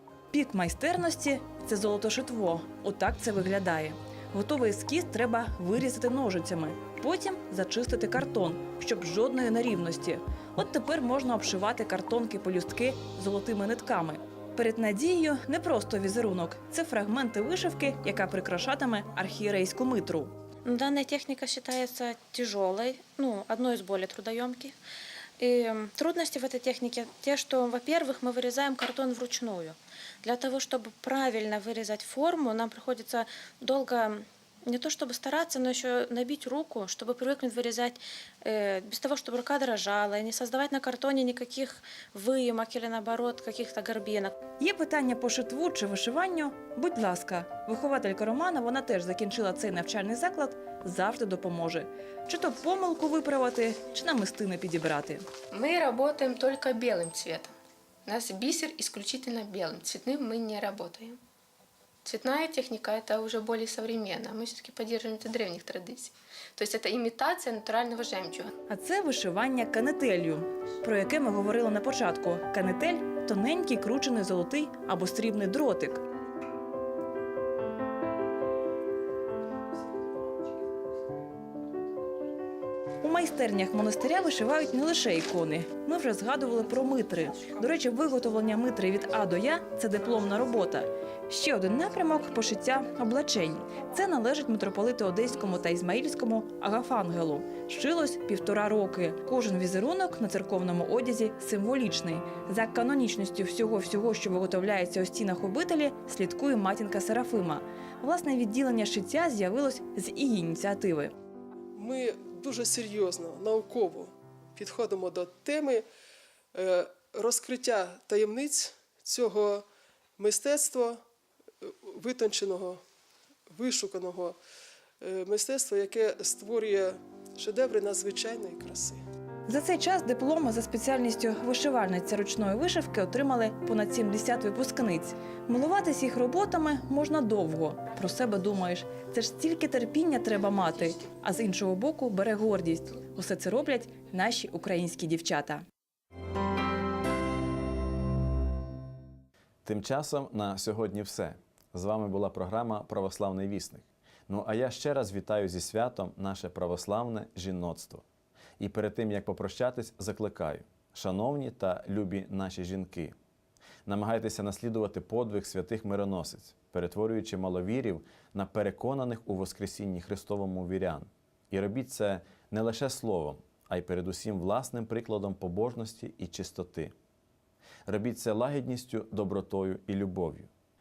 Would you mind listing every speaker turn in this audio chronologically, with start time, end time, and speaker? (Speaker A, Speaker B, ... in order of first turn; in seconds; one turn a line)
Speaker A: 0.3-20.3
Speaker B: 20.7-24.8
Speaker B: 25.4-44.4
Speaker A: 44.6-55.2
Speaker C: 55.5-57.5
Speaker C: 58.1-61.2
Speaker C: 62.0-68.5
Speaker A: 68.7-76.0
Speaker A: 83.0-111.1
Speaker D: 111.8-115.8
Speaker D: 116.5-119.7
Speaker D: 120.2-121.0
Speaker D: 121.6-122.8
Speaker D: 123.5-124.4
Speaker D: 125.0-129.0
Speaker A: 129.5-145.7
Speaker E: 149.7-158.0
Speaker E: 158.6-163.1
Speaker E: 163.9-176.9
Speaker E: 177.9-180.5